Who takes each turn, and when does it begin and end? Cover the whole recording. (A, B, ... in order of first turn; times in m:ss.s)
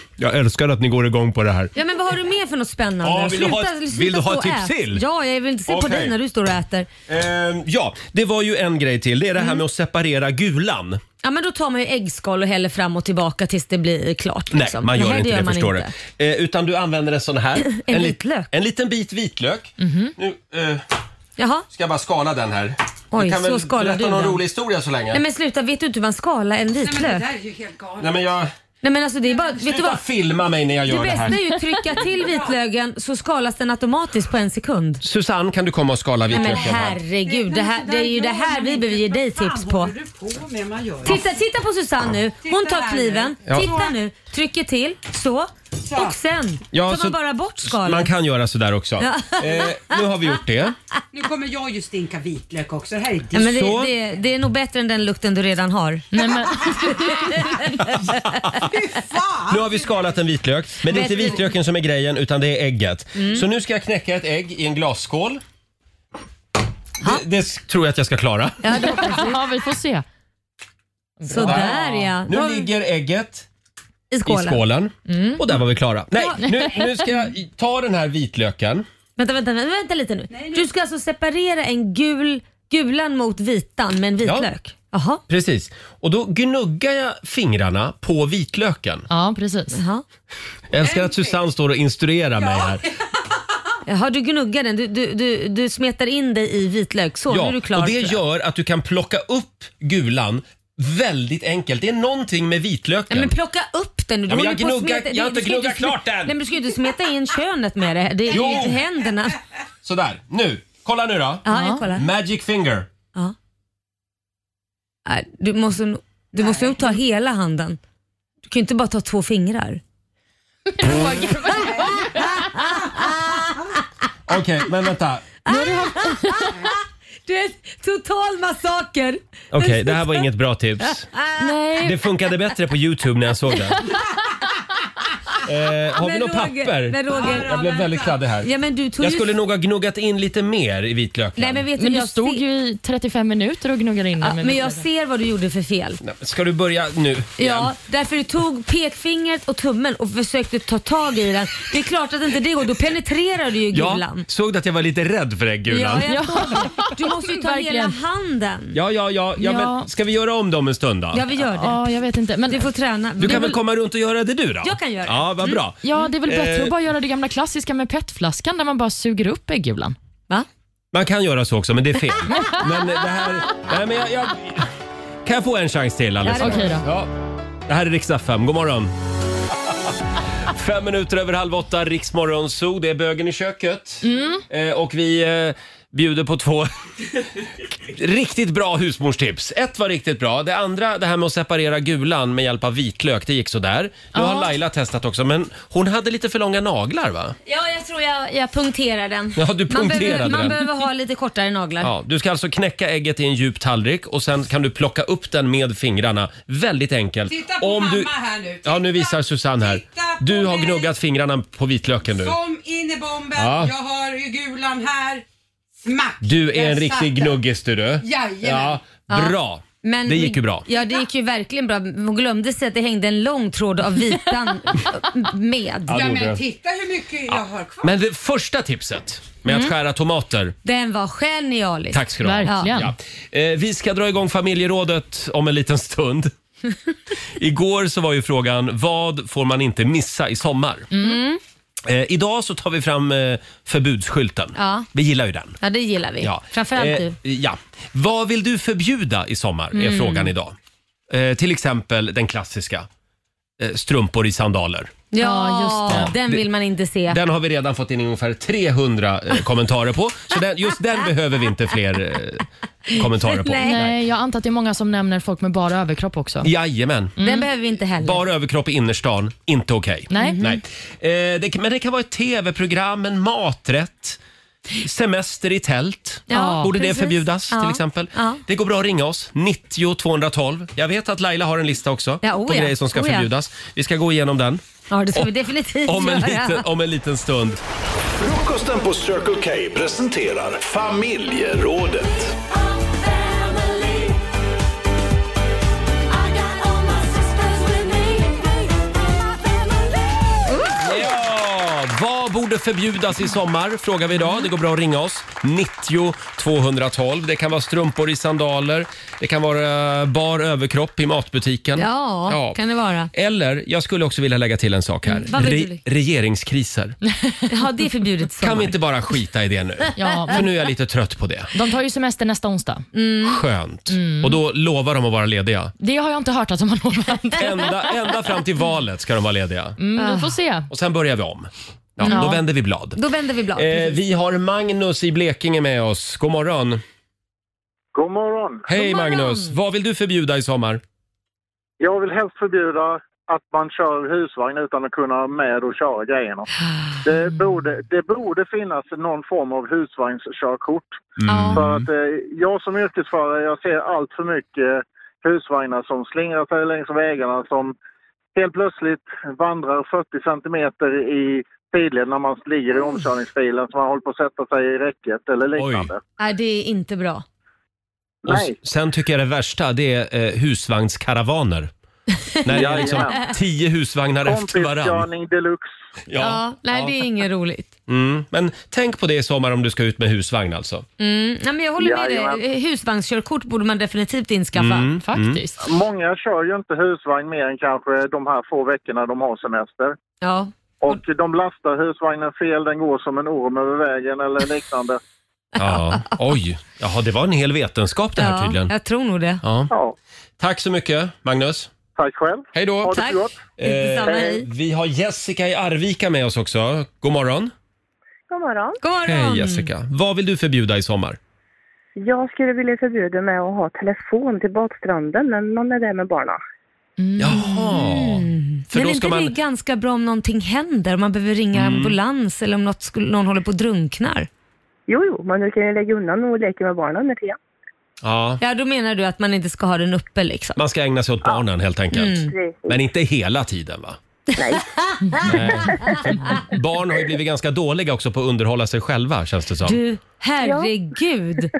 0:00.2-0:01.7 A
0:01.8-0:06.9 B
0:03.0-0:05.0 A
0:05.7-0:06.2 A
0:07.1-0:11.0 A
0:11.2-0:15.9 B
0:14.5-0:20.8 A
0:17.7-0:18.5 B
0:19.8-0:20.1 C
0:21.4-0:21.6 B
0:21.7-0:25.2 A
0:23.1-0:24.4 B
0:25.1-0:27.3 B
0:26.8-0:28.4 D
0:28.0-0:28.5 A
0:28.8-0:30.0 B
0:29.6-0:31.4 A
0:30.9-0:35.0 B
0:31.9-0:32.6 D
0:35.0-0:37.0 A
0:36.3-0:39.9 B
0:36.3-0:41.4 D
0:41.0-0:48.1 B
0:42.4-0:44.0 D
0:43.5-0:43.7 A
0:45.8-0:46.2 D
0:46.7-0:50.8 A
0:49.0-0:50.0 B
0:51.1-0:53.5 D
0:53.3-0:56.1 B
0:53.4-0:53.9 A
0:56.1-0:57.3 C
0:56.9-0:58.1 B
0:58.6-1:00.2 D
0:59.5-1:05.4 A
1:00.9-1:01.5 B
1:03.2-1:03.4 B
1:07.0-1:08.9 A
1:08.6-1:09.4 B
1:08.9-1:10.0 C
1:11.2-1:11.7 C
1:11.3-1:12.7 B
1:11.4-1:13.5 A
1:14.1-1:15.6 B
1:14.3-1:18.8 A
1:16.2-1:16.8 B
1:16.4-1:16.9 C
1:19.2-1:25.2 B
1:20.3-1:20.7 D
1:24.2-1:24.5 A
1:25.3-1:29.1 A
1:29.1-1:29.8 C
1:29.7-1:30.0 B
1:30.7-1:32.8 A
1:30.8-1:31.4 D
1:32.4-1:32.8 D
1:33.9-1:38.2 B
1:37.3-1:43.3 A
1:43.1-1:49.4 B
1:44.3-1:46.4 A
1:48.3-1:48.8 A
1:49.8-1:52.9 A
1:51.5-1:52.1 B
1:51.5-1:51.8 C
1:55.1-1:57.8 B
1:56.4-1:56.7 D
1:58.5-1:59.8 B
2:00.7-2:02.3 C
2:02.1-2:03.5 B
2:04.3-2:05.3 A
2:05.5-2:06.7 B
2:05.5-2:06.3 C
2:07.3-2:10.3 B
2:09.5-2:11.1 A
2:11.1-2:11.5 B
2:11.4-2:12.0 C
2:11.8-2:13.8 A
2:15.4-2:18.5 A
2:16.0-2:17.8 B
2:17.1-2:18.2 D
2:18.4-2:19.3 B
2:19.0-2:21.6 A
2:21.4-2:22.4 B
2:21.8-2:24.8 C
2:24.2-2:26.0 B
2:26.0-2:27.7 A
2:27.4-2:34.2 B
2:33.7-2:36.1 A
2:35.7-2:38.8 B
2:36.1-2:38.0 C
2:38.7-2:41.3 A
2:39.4-2:39.9 C
2:41.1-2:41.8 B
2:41.6-2:42.7 C
2:42.5-2:43.6 B
2:43.2-2:46.7 A
2:44.6-2:45.6 B
2:45.8-2:50.0 C
2:50.9-2:54.7 A
2:55.2-2:57.1 A
2:56.2-2:56.9 B
2:56.4-2:56.8 C
2:57.7-2:58.9 A
3:00.5-3:06.7 A
3:04.0-3:04.4 C
3:07.8-3:17.4 A
3:14.1-3:14.5 C
3:17.5-3:21.9 B
3:19.4-3:20.6 A
3:21.8-3:32.4 A
3:27.3-3:30.9 D
3:32.1-3:35.2 D
3:33.4-3:33.7 A
3:35.8-3:37.4 D
3:36.2-3:40.6 A
3:38.0-3:38.9 D
3:39.1-3:46.0 B
3:45.9-3:46.4 A
3:45.9-3:47.9 D
3:47.3-3:50.6 A
3:49.5-3:49.7 B
3:50.6-3:52.7 B
3:51.9-3:56.3 A
3:52.2-3:52.9 C
3:57.4-4:00.9 A
4:00.9-4:01.2 C
4:01.0-4:01.4 B
4:01.9-4:05.6 A
4:04.6-4:04.9 B
4:05.6-4:07.1 B
4:06.2-4:10.6 A
4:09.7-4:10.3 B
4:11.1-4:12.9 A
4:13.6-4:15.0 A
4:15.1-4:17.2 B
4:15.2-4:16.1 C
4:15.9-4:16.4 A
4:17.1-4:23.9 A
4:23.0-4:23.8 B
4:23.6-4:26.5 C
4:26.4-4:27.2 A
4:27.2-4:27.5 C
4:27.2-4:28.2 B
4:28.0-4:34.2 A
4:30.1-4:30.4 C
4:30.2-4:30.6 B
4:34.8-4:44.6 A
4:36.3-4:36.7 C
4:36.3-4:38.4 B
4:42.2-4:43.3 B
4:44.9-4:46.6 B
4:45.8-4:47.6 A
4:48.2-4:52.4 E
5:00.5-5:00.9 B
5:00.8-5:12.6 A
5:11.8-5:13.1 B
5:13.1-5:17.0 A
5:15.1-5:15.8 B
5:17.2-5:17.5 C
5:17.5-5:18.8 B
5:18.4-5:21.5 A
5:20.0-5:20.4 C
5:21.5-5:22.8 C
5:22.9-5:23.4 B
5:23.2-5:25.7 A
5:23.9-5:24.4 C
5:25.8-5:27.7 C
5:27.4-5:29.8 A
5:29.8-5:30.7 C
5:30.0-5:30.4 B
5:30.7-5:33.0 A
5:32.0-5:32.4 B
5:32.1-5:32.4 C
5:33.0-5:34.0 B
5:33.6-5:36.8 A
5:37.9-5:38.7 F
5:38.7-5:40.8 A
5:38.7-5:39.5 B
5:41.8-5:46.5 F
5:47.0-5:57.7 F
5:51.2-5:51.9 A
5:51.3-5:51.6 C
5:51.3-5:51.6 B
5:58.4-6:06.0 F
6:05.6-6:05.9 A
6:06.2-6:07.2 B
6:08.2-6:08.6 F
6:08.2-6:11.7 A
6:12.4-6:13.3 B
6:12.4-6:15.1 A
6:12.5-6:13.2 F
6:14.2-6:15.7 F
6:16.1-6:17.0 A
6:16.2-6:17.7 B
6:17.9-6:20.8 A
6:21.0-6:24.9 B
6:21.8-6:22.4 F
6:24.6-6:25.4 A
6:25.0-6:25.6 C
6:25.6-6:30.0 F
6:30.2-6:31.0 B
6:30.8-6:35.0 F
6:35.6-6:36.1 B
6:35.6-6:38.7 A
6:38.2-6:39.4 B
6:39.4-6:39.7 A
6:39.7-6:40.0 F
6:40.4-6:41.7 A
6:42.0-6:43.5 F
6:42.5-6:47.5 A
6:42.9-6:44.5 B
6:44.0-6:44.3 F
6:48.3-6:48.8 G
6:48.8-6:49.7 B
6:49.0-6:51.2 A
6:52.0-6:56.4 G
6:57.0-6:57.7 C
6:57.2-6:59.4 A
6:57.3-7:04.3 B
7:01.5-7:02.0 A
7:04.9-7:07.4 G
7:08.0-7:08.4 A
7:08.4-7:10.6 B
7:10.6-7:14.0 A
7:11.9-7:12.3 B
7:12.3-7:12.8 G
7:14.4-7:16.4 B
7:14.4-7:14.6 G
7:15.2-7:19.8 A
7:19.6-7:21.5 B
7:20.4-7:20.7 G